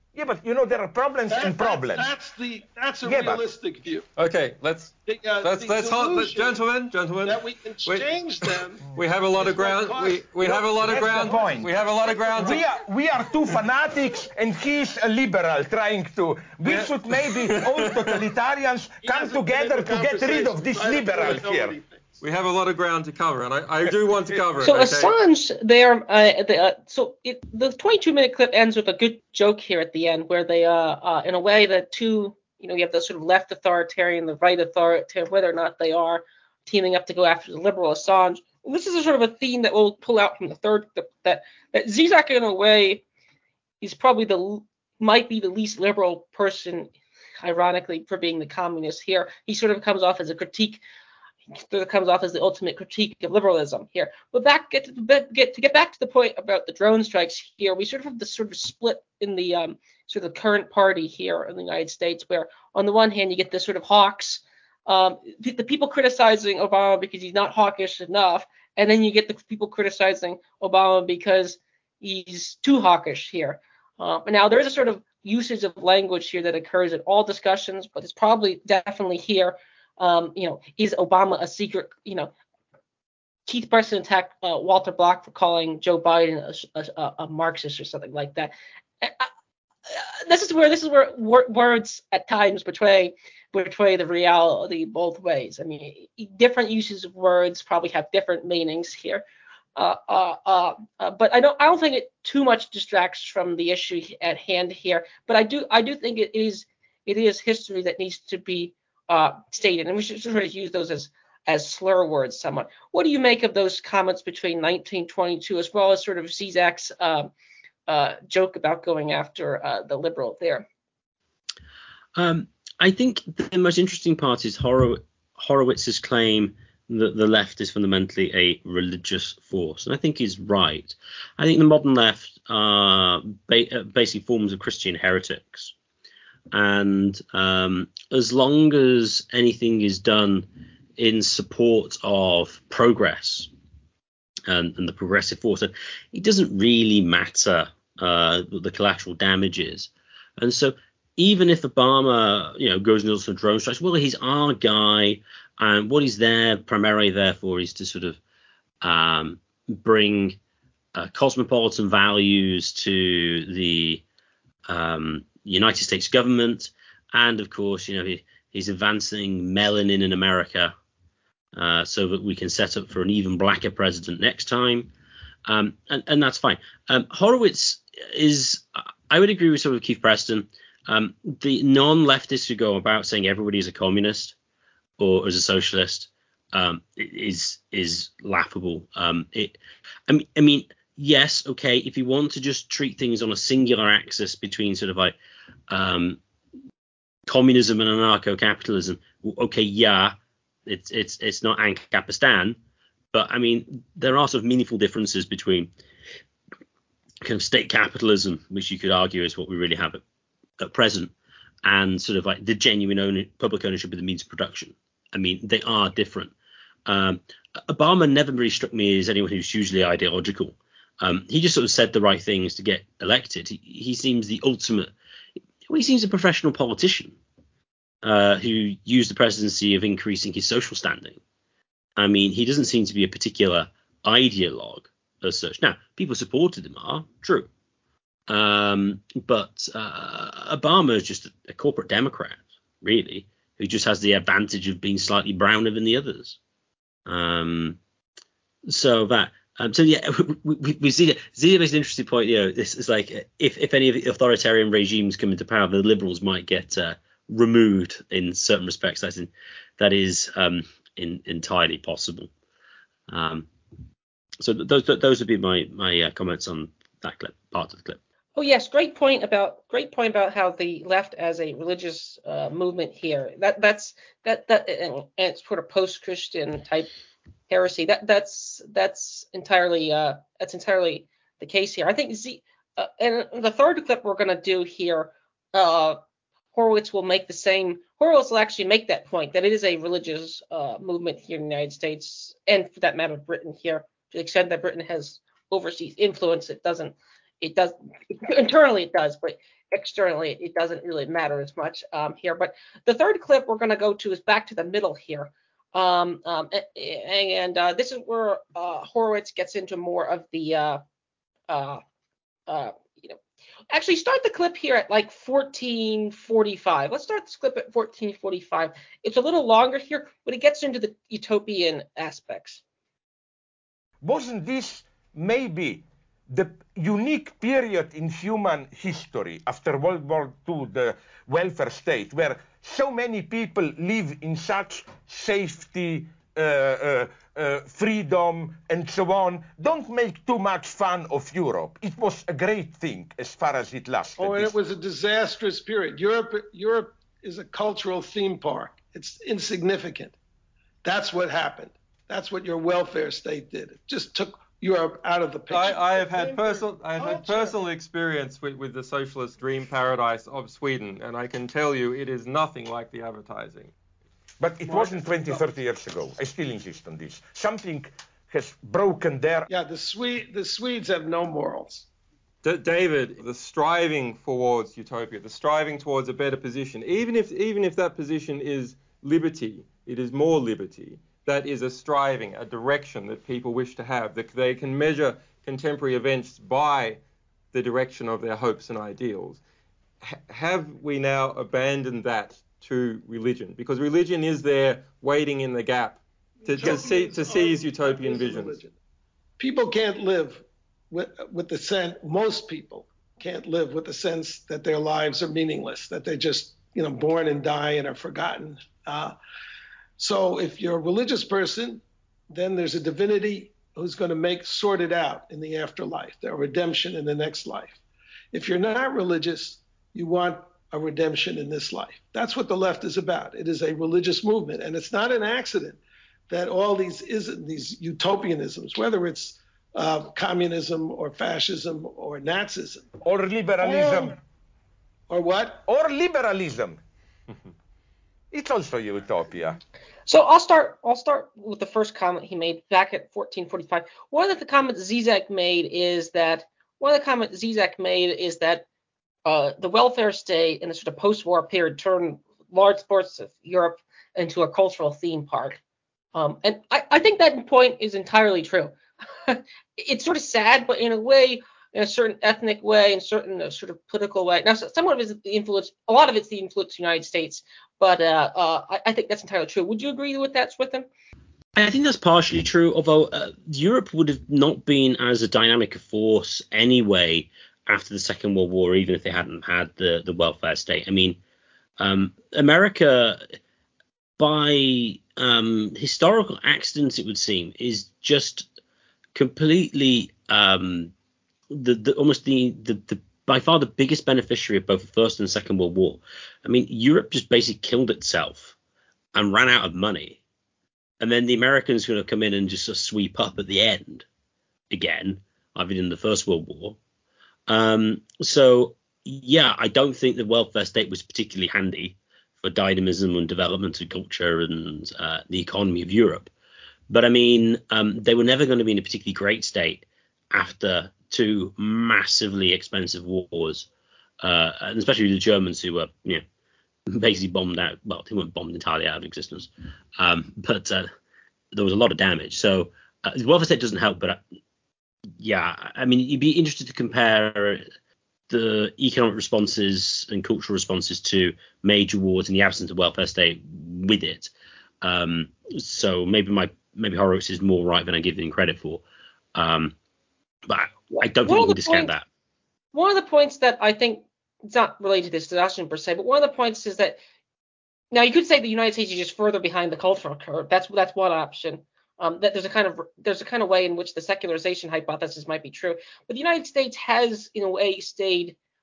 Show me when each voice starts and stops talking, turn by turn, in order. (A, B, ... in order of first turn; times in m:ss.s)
0:00.1-0:02.1 A
0:01.3-0:04.1 B
0:03.0-0:03.4 A
0:04.2-0:12.6 C
0:05.0-0:06.6 B
0:07.2-0:12.6 B
0:10.8-0:11.7 A
0:12.3-0:21.8 A
0:16.7-0:18.1 C
0:19.0-0:22.2 B
0:22.2-0:25.1 C
0:24.6-0:43.0 D
0:43.8-0:46.9 D
0:47.4-0:50.8 D
0:51.5-1:22.3 D
1:23.4-1:29.3 D
1:29.9-1:39.2 D
1:39.8-1:57.3 D
1:57.9-2:00.6 D
2:02.2-2:15.7 E
2:16.5-2:20.4 E
2:21.0-2:23.5 E
2:24.5-2:38.2 E
2:38.8-2:40.4 E
2:40.9-2:44.0 E
2:44.7-2:50.7 E
2:51.5-2:54.9 E
2:55.4-3:04.3 E
3:05.0-3:09.6 E
3:10.1-3:15.1 E
3:15.7-3:16.2 E
3:17.3-3:20.1 E
3:20.6-3:22.6 E
3:23.1-3:25.7 E
3:27.2-3:30.0 E
3:30.6-3:31.1 E
3:31.6-3:36.3 E
3:36.8-3:44.9 E
3:45.7-3:47.2 E
3:48.0-3:51.2 E
3:52.0-3:57.5 E
3:58.3-4:06.4 E
4:07.0-4:07.8 E
4:08.6-4:22.3 E
4:23.1-4:23.5 E
4:24.4-4:28.0 E
4:28.4-4:36.9 D
4:37.5-4:46.0 D
4:46.5-5:10.8 D
5:11.5-5:11.8 D
5:12.5-5:13.2 D
5:13.7-5:22.6 D
5:24.0-5:44.5 A
5:44.2-5:50.1 B
5:50.8-5:57.6 B
5:55.5-6:03.7 C
6:04.4-6:09.5 A
6:04.7-6:05.5 B
6:09.5-6:11.8 B
6:12.4-6:27.0 C
6:27.5-6:29.4 C
6:30.0-6:38.6 C
6:36.4-6:38.7 B
6:39.4-6:49.1 B
6:50.0-6:57.8 B
6:58.3-7:12.9 B
7:13.0-7:14.2 A
7:13.6-7:14.2 B
7:15.1-7:15.6 B
7:15.6-7:16.8 A
7:18.3-7:19.6 A
7:20.1-7:28.6 D
7:29.2-7:35.6 D
7:36.1-7:50.8 D
7:51.6-8:01.2 E
8:01.8-8:03.2 E
8:04.2-8:08.4 E
8:09.1-8:10.9 E
8:11.5-8:18.5 E
8:19.1-8:20.2 E
8:21.0-8:24.0 E
8:24.7-8:26.8 E
8:27.5-8:36.3 E
8:36.9-8:43.7 E
8:44.2-8:46.2 E
8:46.9-8:50.9 E
8:51.5-8:54.2 E
8:55.2-8:57.6 E
8:58.3-9:04.3 E
9:04.8-9:08.8 E
9:09.3-9:09.7 E
9:10.5-9:12.0 E
9:10.9-9:11.9 D
9:12.7-9:17.0 D
9:17.9-9:28.4 D